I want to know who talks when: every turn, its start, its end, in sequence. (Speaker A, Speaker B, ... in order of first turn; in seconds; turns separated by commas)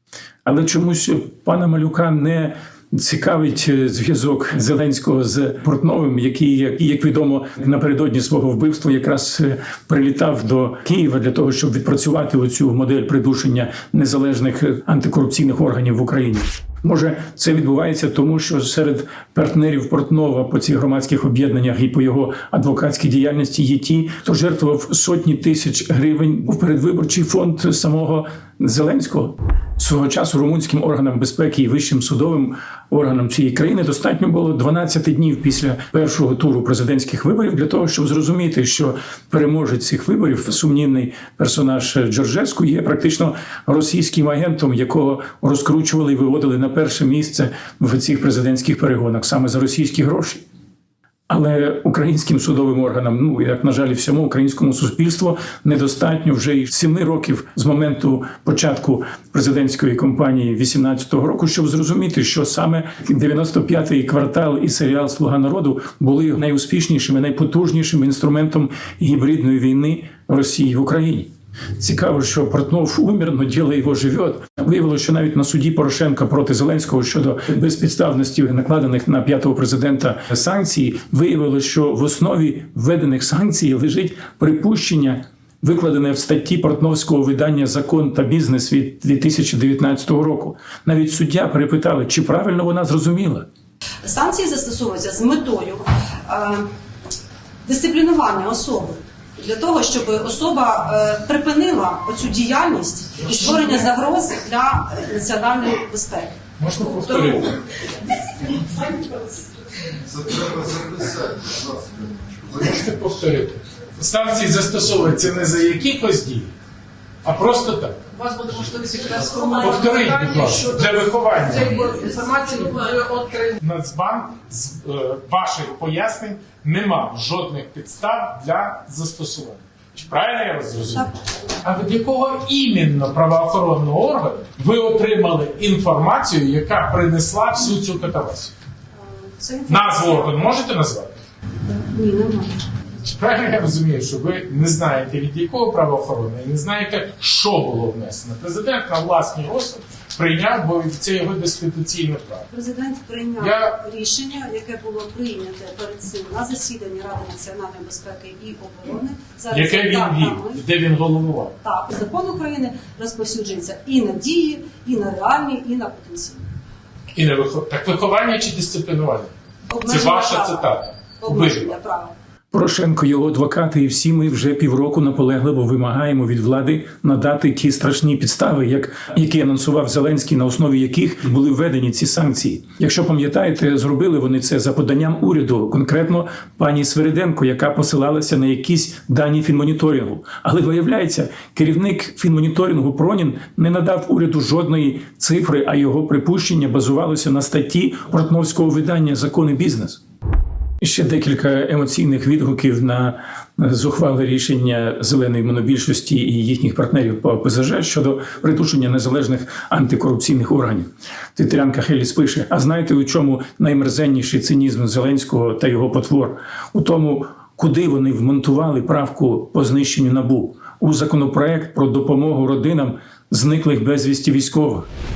Speaker A: 0.4-50.4, Speaker A: 51.3-93.5, Speaker B: 94.0-96.7, Speaker B: 97.6-106.4, Speaker C: 106.6-107.6, Speaker B: 108.3-109.2, Speaker C: 110.7-111.3, Speaker C: 112.5-116.5, Speaker C: 117.2-118.2, Speaker D: 118.2-119.7, Speaker C: 119.2-138.5, Speaker D: 121.8-123.4, Speaker B: 139.0-140.3, Speaker C: 139.7-141.2, Speaker B: 141.6-142.6, Speaker C: 143.0-152.5, Speaker B: 152.5-160.6, Speaker C: 153.4-153.8, Speaker C: 159.5-161.6, Speaker B: 161.6-166.4, Speaker C: 167.1-169.3, Speaker B: 169.7-172.1, Speaker C: 169.8-171.8, Speaker A: 172.5-200.0, Speaker A: 200.8-224.9